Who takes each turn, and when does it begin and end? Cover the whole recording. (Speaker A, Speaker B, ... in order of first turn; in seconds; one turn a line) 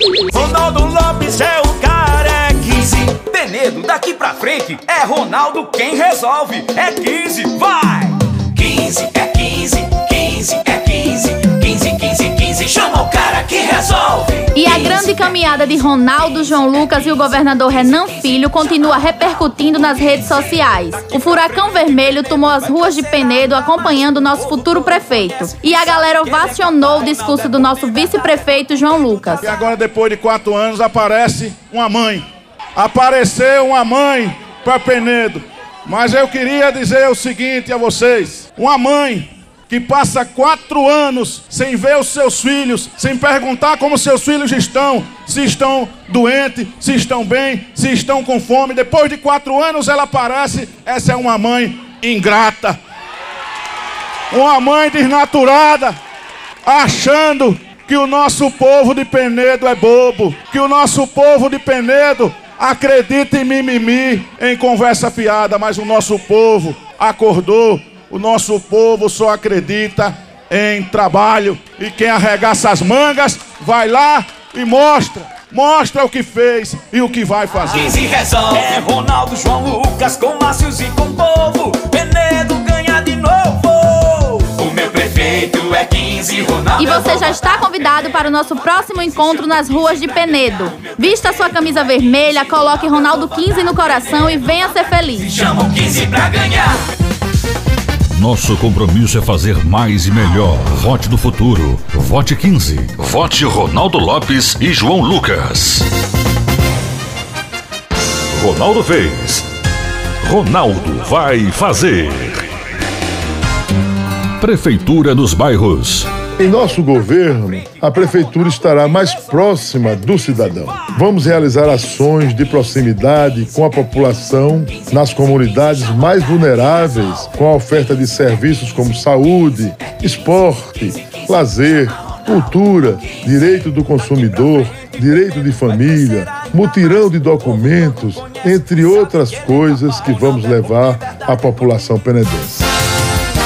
Speaker A: 0.3-15.0
Speaker B: 14.5-29.5
Speaker A: 26.7-27.4
Speaker C: 29.4-52.8
Speaker C: 54.3-56.0
Speaker C: 56.6-78.0
Speaker A: 77.7-87.6
Speaker B: 86.8-95.3
Speaker A: 95.2-96.8
Speaker D: 98.1-105.9
Speaker D: 108.3-109.5
Speaker D: 110.2-112.5
Speaker D: 114.4-116.1
Speaker E: 116.4-142.7
Speaker A: 126.4-126.6